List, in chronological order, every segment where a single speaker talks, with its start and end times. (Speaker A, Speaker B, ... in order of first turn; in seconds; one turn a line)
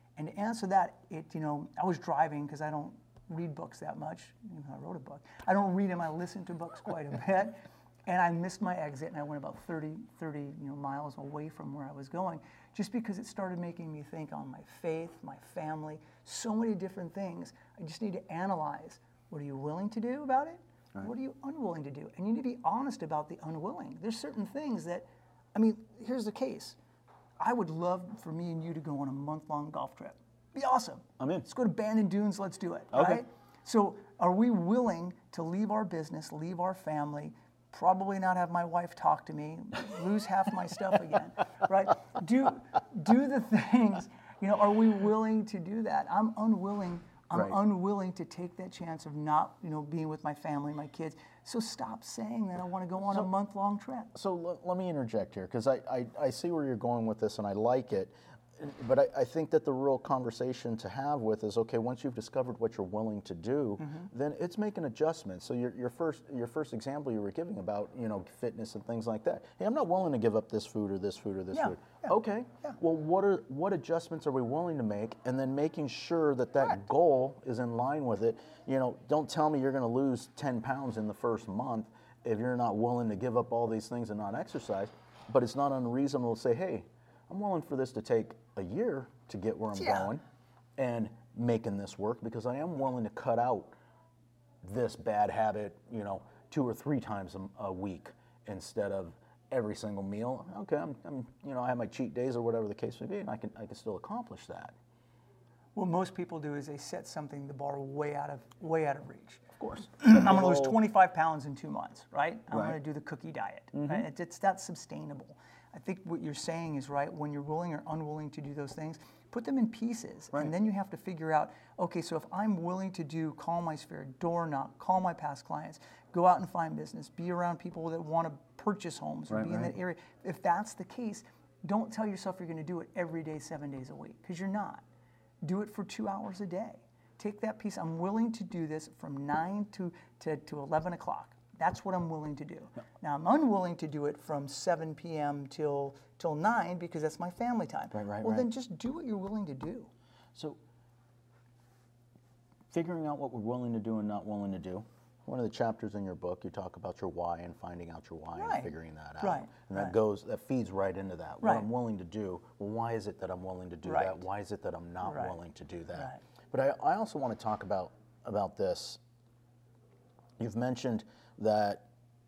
Speaker A: 0.2-26.8
Speaker A: 27.4-54.1
Speaker B: 31.2-31.5
Speaker B: 32.9-33.2
Speaker B: 54.1-90.2
Speaker A: 63.8-64.1
Speaker A: 71.5-72.8
Speaker B: 90.8-93.8
Speaker B: 94.6-104.7
Speaker A: 105.7-109.5
Speaker B: 109.6-110.8
Speaker A: 110.0-134.8
Speaker B: 112.5-112.8
Speaker B: 113.7-114.0
Speaker B: 129.3-129.7
Speaker A: 135.4-149.9
Speaker B: 147.9-148.5
Speaker B: 152.7-169.0
Speaker A: 158.3-159.9
Speaker A: 161.4-161.7
Speaker A: 163.8-164.2
Speaker A: 165.0-165.3
Speaker A: 165.9-166.2
Speaker B: 170.4-171.8